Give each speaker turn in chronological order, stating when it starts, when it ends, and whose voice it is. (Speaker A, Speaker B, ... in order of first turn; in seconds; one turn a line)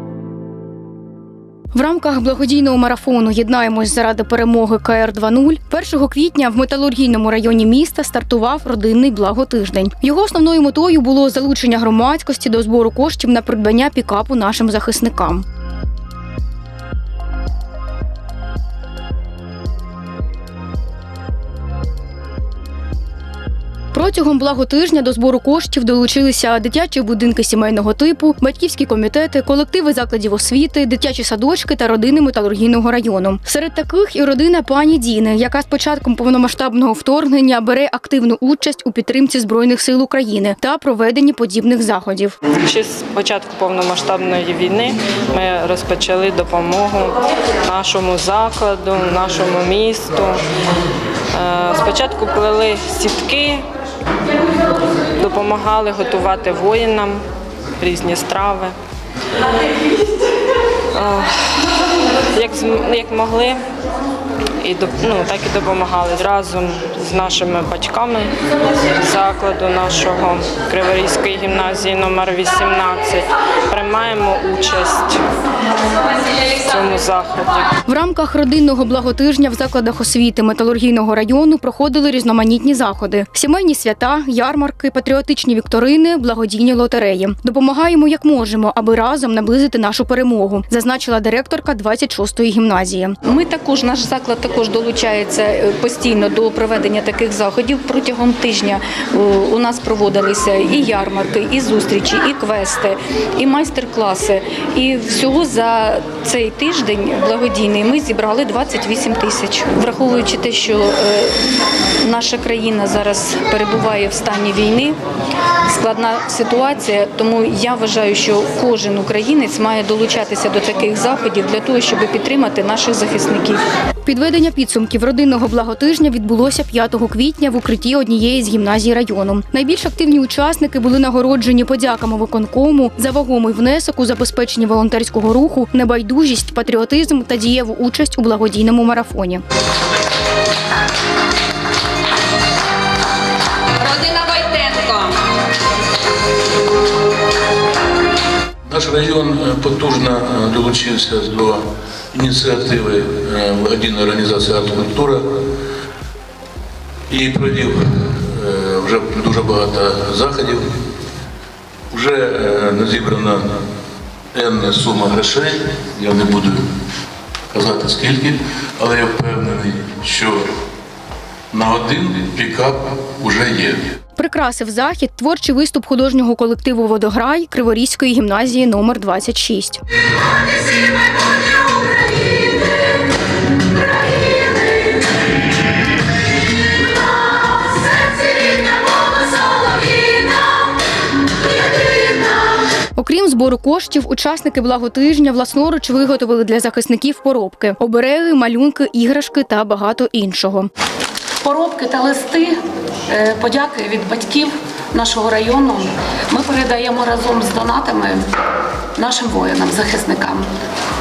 Speaker A: 1.7-15.4
Speaker A: 23.9-42.4
Speaker B: 42.5-50.4
Speaker B: 51.3-53.7
Speaker B: 55.1-57.2
Speaker B: 57.8-58.8
Speaker B: 60.9-63.6
Speaker B: 64.6-68.3
Speaker B: 69.0-75.2
Speaker B: 76.6-77.8
Speaker A: 77.8-93.2
Speaker C: 93.2-111.3
Speaker C: 112.0-115.0
Speaker C: 115.7-123.6
Speaker A: 124.0-139.4
Speaker D: 143.9-144.7
Speaker E: 148.7-155.3
Speaker E: 157.1-160.7
Speaker E: 161.9-163.6
Speaker E: 164.3-166.6
Speaker E: 167.5-170.5
Speaker E: 171.5-173.9
Speaker A: 174.2-179.8
Speaker A: 193.0-200.7
Speaker D: 201.4-208.3
Speaker D: 209.0-210.5